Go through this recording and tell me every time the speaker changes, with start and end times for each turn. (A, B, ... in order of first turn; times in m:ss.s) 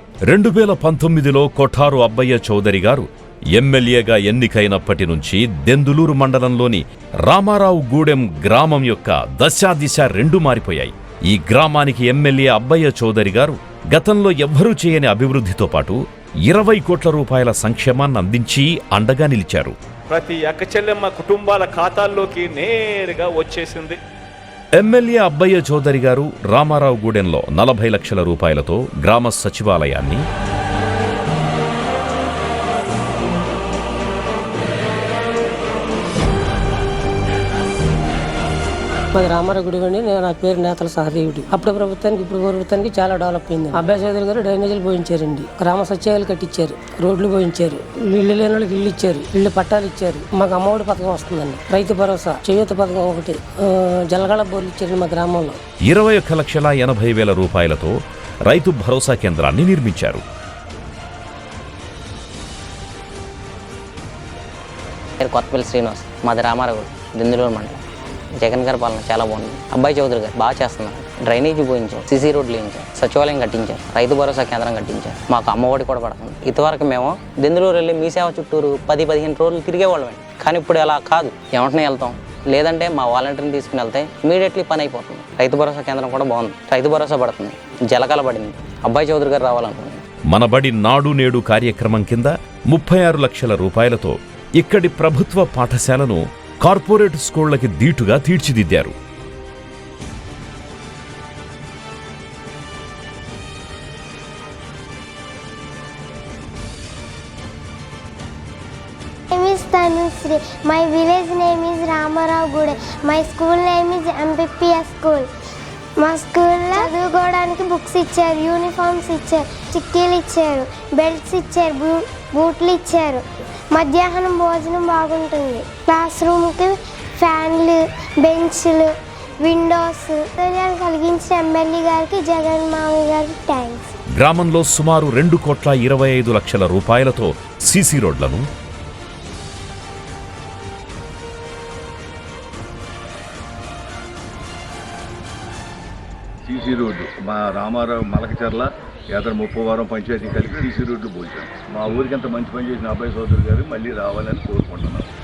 0:00.3-0:19.8 A
0:20.1-0:24.0 B
0:24.8-0:30.2 A
0:39.1-0:55.6 C
0:55.9-0:58.0 A
0:58.5-1:00.2 A
1:05.2-1:07.8 D
1:08.4-1:30.0 D
1:30.3-1:38.9 A
1:49.3-1:55.3 E
1:56.0-2:13.9 E
2:14.2-2:18.4 A
2:26.4-2:35.1 F